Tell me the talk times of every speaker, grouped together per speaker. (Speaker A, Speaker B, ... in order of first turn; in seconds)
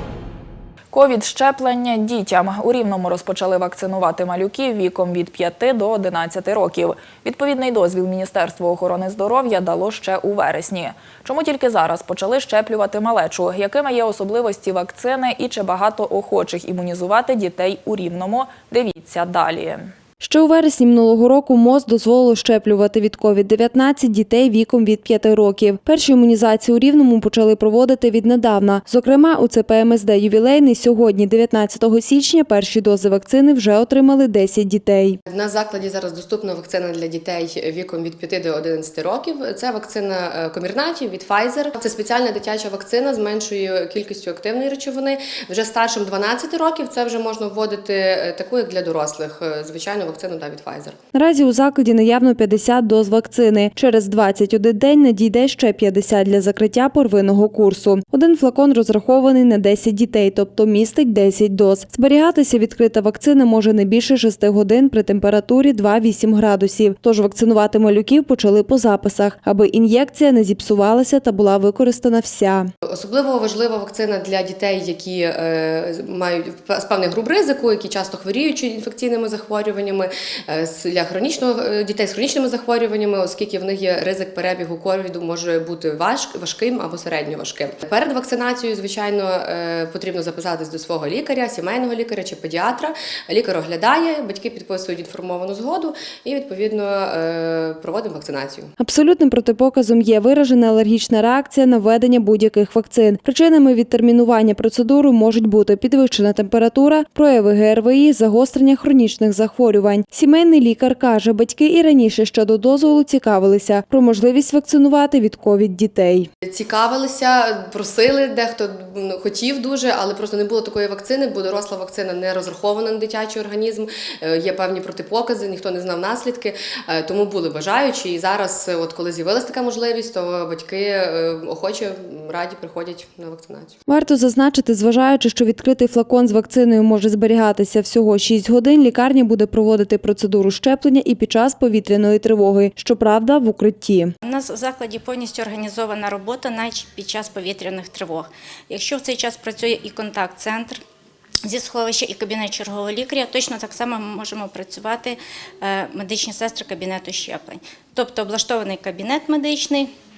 Speaker A: 0.9-19.9
Speaker B: 20.2-35.2, 51.1-72.7, 98.8-116.3, 133.9-144.1
Speaker C: 35.2-51.0, 72.8-98.7, 116.4-133.8
Speaker D: 144.2-150.8, 151.5-159.9